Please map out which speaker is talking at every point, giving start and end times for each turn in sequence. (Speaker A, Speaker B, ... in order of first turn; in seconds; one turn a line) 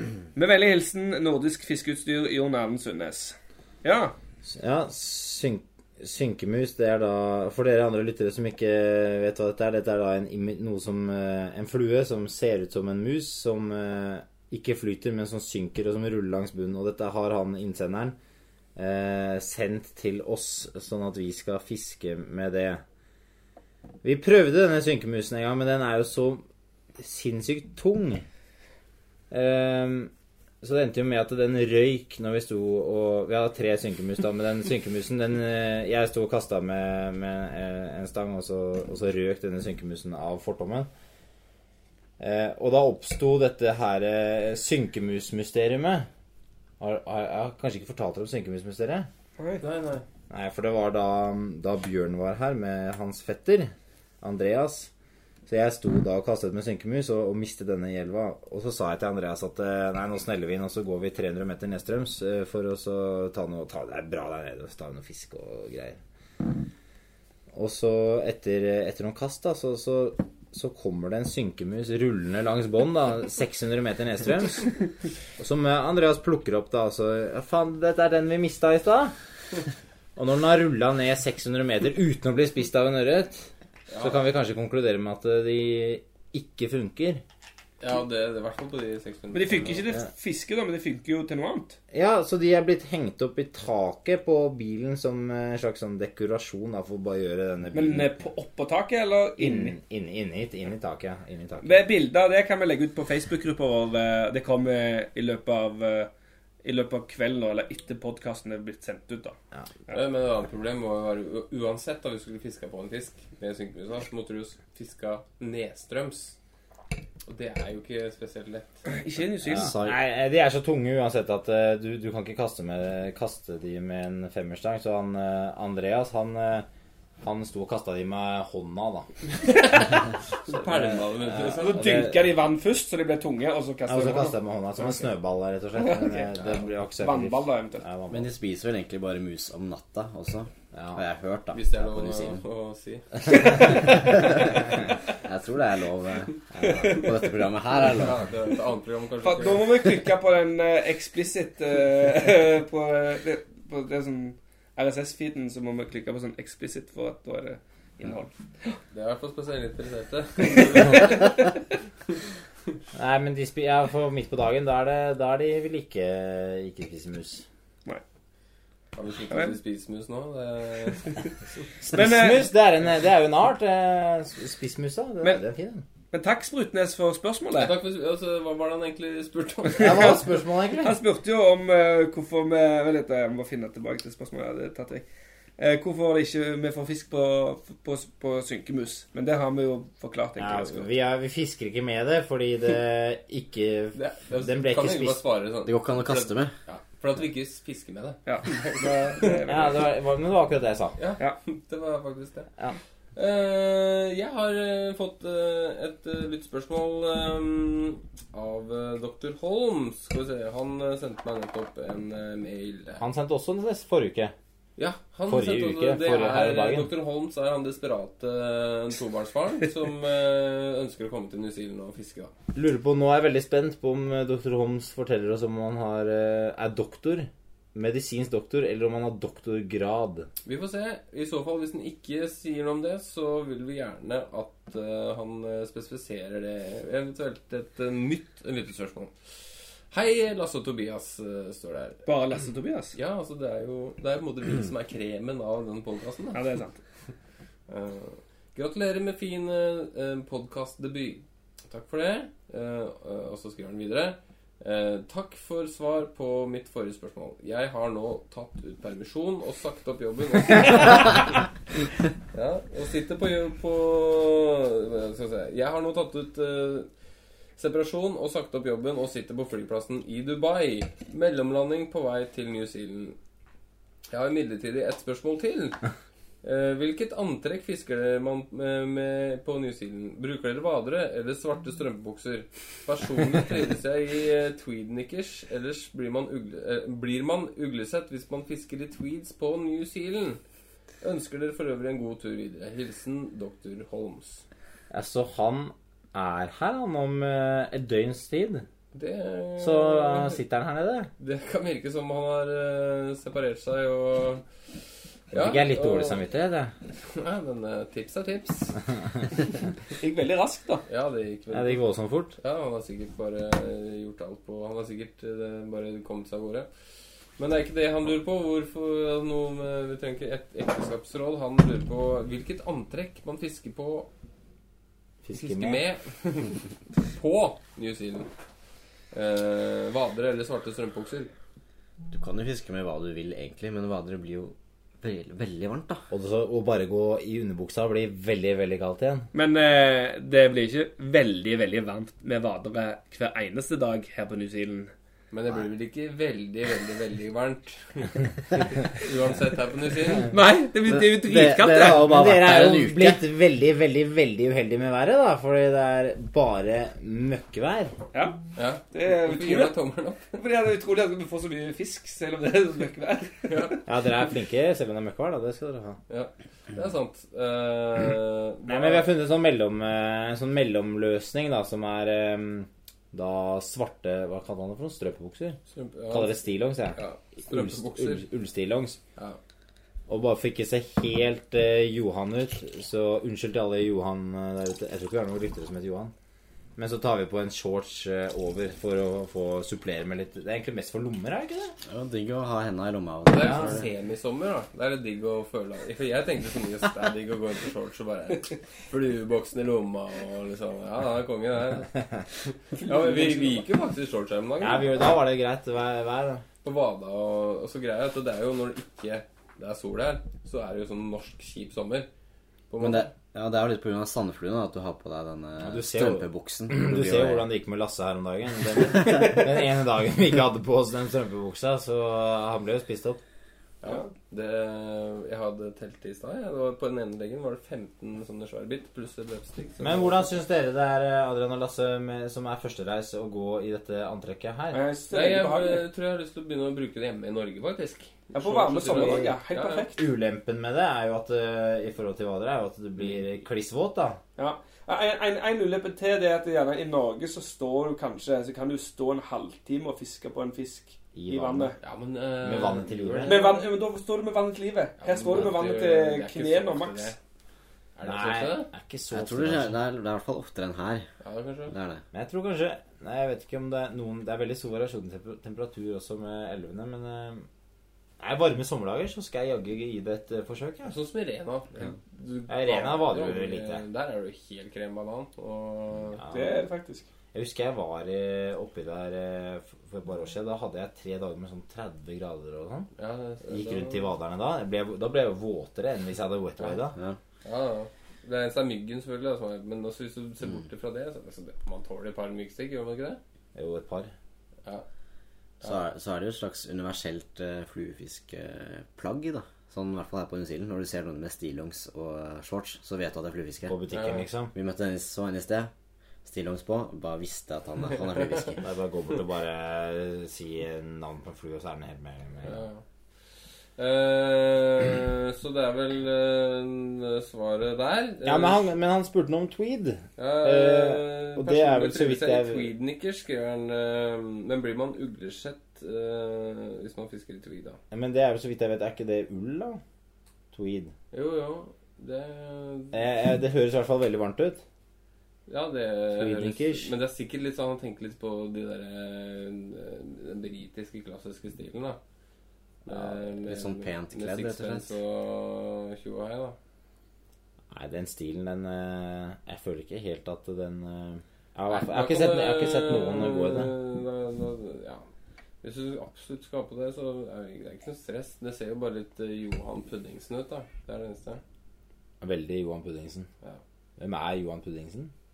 Speaker A: 0.3-4.1
Speaker B: 4.4-18.1
Speaker B: 18.8-22.8
Speaker B: 24.0-26.4
Speaker B: 27.0-28.2
Speaker B: 29.3-30.1
Speaker B: 30.6-40.9
Speaker B: 42.2-46.1
Speaker B: 46.8-49.1
Speaker C: 49.6-50.0
Speaker B: 50.3-54.9
Speaker B: 55.5-66.0
Speaker B: 67.5-79.1
Speaker B: 80.2-87.2
Speaker C: 83.9-84.2
Speaker C: 87.8-89.9
Speaker A: 89.3-91.8
Speaker B: 91.9-98.1
Speaker A: 97.7-99.8
Speaker B: 99.4-101.8
Speaker A: 101.6-106.1
Speaker A: 106.6-109.4
Speaker C: 109.9-116.4
Speaker C: 117.3-118.8
Speaker A: 118.9-119.8
Speaker D: 119.4-120.0
Speaker B: 119.5-126.7
Speaker B: 127.2-129.1
Speaker C: 129.5-131.9
Speaker B: 130.5-132.3
Speaker A: 131.5-134.3
Speaker B: 133.9-138.3
Speaker A: 135.8-136.3
Speaker A: 137.0-137.8
Speaker D: 138.1-142.4
Speaker B: 140.7-141.0
Speaker C: 141.5-143.1
Speaker D: 143.3-148.2
Speaker A: 143.5-144.1
Speaker B: 146.5-147.1
Speaker C: 147.8-149.7
Speaker A: 149.2-158.8
Speaker C: 158.9-161.3
Speaker A: 160.5-161.3
Speaker B: 162.9-167.4
Speaker C: 168.9-171.2
Speaker A: 171.8-172.5
Speaker B: 171.9-175.8
Speaker A: 176.1-177.8
Speaker C: 177.5-180.1
Speaker A: 179.7-180.3
Speaker B: 179.8-181.0
Speaker A: 180.8-185.1
Speaker A: 185.6-190.9
Speaker B: 190.4-195.2
Speaker C: 193.9-199.5
Speaker D: 195.6-196.5
Speaker A: 198.3-199.8
Speaker B: 199.4-201.0
Speaker C: 201.0-202.5
Speaker C: 203.1-213.0
Speaker B: 213.0-214.3
Speaker C: 214.8-222.3
Speaker B: 215.3-216.9
Speaker B: 222.5-230.3
Speaker C: 230.4-239.1
Speaker C: 239.9-242.1
Speaker A: 242.1-242.9
Speaker C: 242.9-246.4
Speaker A: 246.3-246.8
Speaker C: 247.7-261.4
Speaker C: 262.3-266.9
Speaker C: 267.6-273.2
Speaker C: 274.1-275.8
Speaker C: 276.4-290.4
Speaker C: 291.0-294.4
Speaker B: 294.9-298.6
Speaker C: 298.9-300.4
Speaker B: 299.6-301.1
Speaker C: 301.2-304.4
Speaker C: 305.3-306.2
Speaker B: 305.3-306.7
Speaker C: 307.0-308.8
Speaker A: 309.9-310.9
Speaker C: 310.9-311.9
Speaker B: 311.5-312.4
Speaker C: 312.4-316.7
Speaker C: 317.4-324.1
Speaker B: 325.2-325.8
Speaker C: 325.4-328.3
Speaker C: 329.1-331.3
Speaker D: 332.1-336.1
Speaker B: 336.1-339.3
Speaker A: 339.3-344.9
Speaker C: 345.3-350.3
Speaker A: 350.3-352.1
Speaker D: 350.9-353.2
Speaker B: 352.0-357.9
Speaker A: 358.1-358.4
Speaker C: 358.6-360.4
Speaker A: 358.9-359.7
Speaker A: 360.3-363.8
Speaker C: 363.4-363.8
Speaker B: 363.9-366.0
Speaker C: 366.1-369.1
Speaker B: 368.7-375.6
Speaker C: 375.7-378.3
Speaker B: 376.1-379.0
Speaker B: 380.1-386.1
Speaker B: 386.8-391.7
Speaker D: 391.9-393.9
Speaker C: 393.3-405.1
Speaker B: 393.4-393.7
Speaker A: 402.8-403.7
Speaker B: 404.6-406.4
Speaker C: 406.6-412.1
Speaker C: 412.7-413.1
Speaker D: 412.8-417.5
Speaker B: 415.6-423.2
Speaker C: 423.8-430.3
Speaker B: 429.8-434.8
Speaker A: 434.7-435.9
Speaker C: 435.1-439.9
Speaker A: 438.3-440.0
Speaker B: 438.9-439.4
Speaker B: 439.9-444.2
Speaker A: 444.4-451.8
Speaker B: 451.1-451.8
Speaker C: 451.8-453.6
Speaker B: 452.4-453.6
Speaker A: 453.2-457.1
Speaker C: 455.0-457.1
Speaker C: 457.9-458.7
Speaker B: 458.0-459.8
Speaker D: 459.1-461.1
Speaker C: 461.2-461.7
Speaker D: 461.7-462.0
Speaker B: 462.1-467.4
Speaker B: 468.2-470.9
Speaker C: 470.8-476.2
Speaker B: 472.5-473.8
Speaker B: 476.1-476.6
Speaker A: 476.3-477.1
Speaker B: 477.3-482.9
Speaker C: 483.0-484.1
Speaker B: 483.4-486.9
Speaker D: 486.9-487.2
Speaker C: 487.4-493.2
Speaker B: 493.6-494.1
Speaker D: 495.6-503.8
Speaker B: 503.7-504.5
Speaker C: 503.9-504.2
Speaker D: 504.5-505.7
Speaker D: 506.2-508.6
Speaker B: 508.6-512.6
Speaker C: 512.4-512.8
Speaker C: 513.8-518.6
Speaker B: 518.2-522.7
Speaker C: 520.2-527.8
Speaker B: 527.9-529.8
Speaker B: 530.5-530.9
Speaker C: 531.1-533.0
Speaker B: 532.9-534.6
Speaker C: 535.5-542.0
Speaker B: 536.1-536.9
Speaker C: 542.9-546.6
Speaker D: 543.4-544.9
Speaker B: 547.7-553.7
Speaker C: 551.7-555.1
Speaker C: 555.6-561.4
Speaker B: 562.2-563.3
Speaker B: 564.0-565.1